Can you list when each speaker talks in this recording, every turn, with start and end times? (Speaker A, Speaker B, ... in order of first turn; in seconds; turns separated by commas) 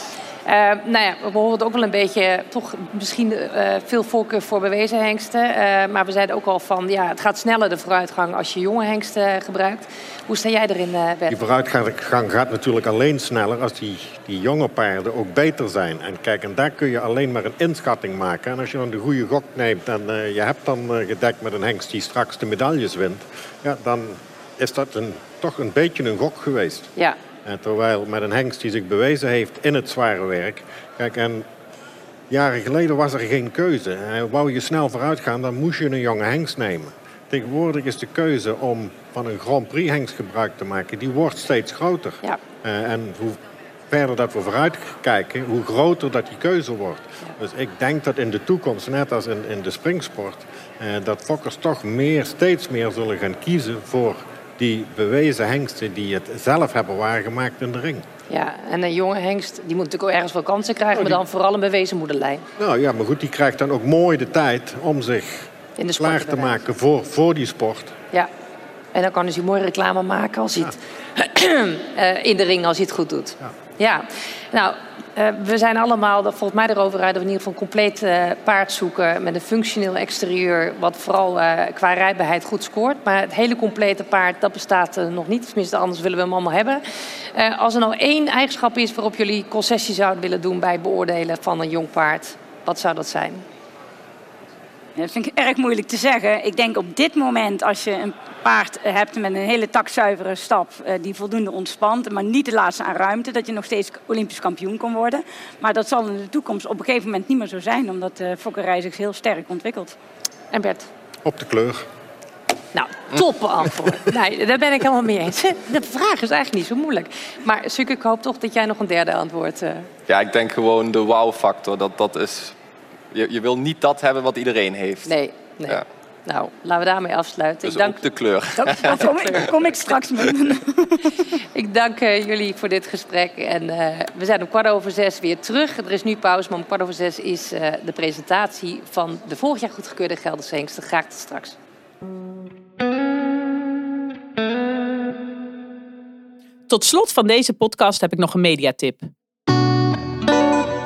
Speaker A: 0.5-11.4, Speaker B: 11.3-26.9, Speaker B: 27.4-31.5, Speaker B: 32.3-58.0, Speaker A: 58.3-62.5, Speaker B: 62.6-68.0, Speaker A: 65.8-66.5, Speaker A: 68.9-86.8, Speaker A: 87.3-93.4, Speaker C: 95.0-110.0, Speaker A: 110.5-110.9, Speaker B: 111.2-111.9, Speaker A: 112.7-119.9, Speaker D: 120.1-122.6, Speaker D: 123.1-125.2, Speaker A: 125.1-128.0, Speaker D: 127.6-129.5, Speaker C: 128.6-131.2, Speaker A: 128.6-129.7, Speaker A: 131.5-141.6, Speaker E: 146.7-149.1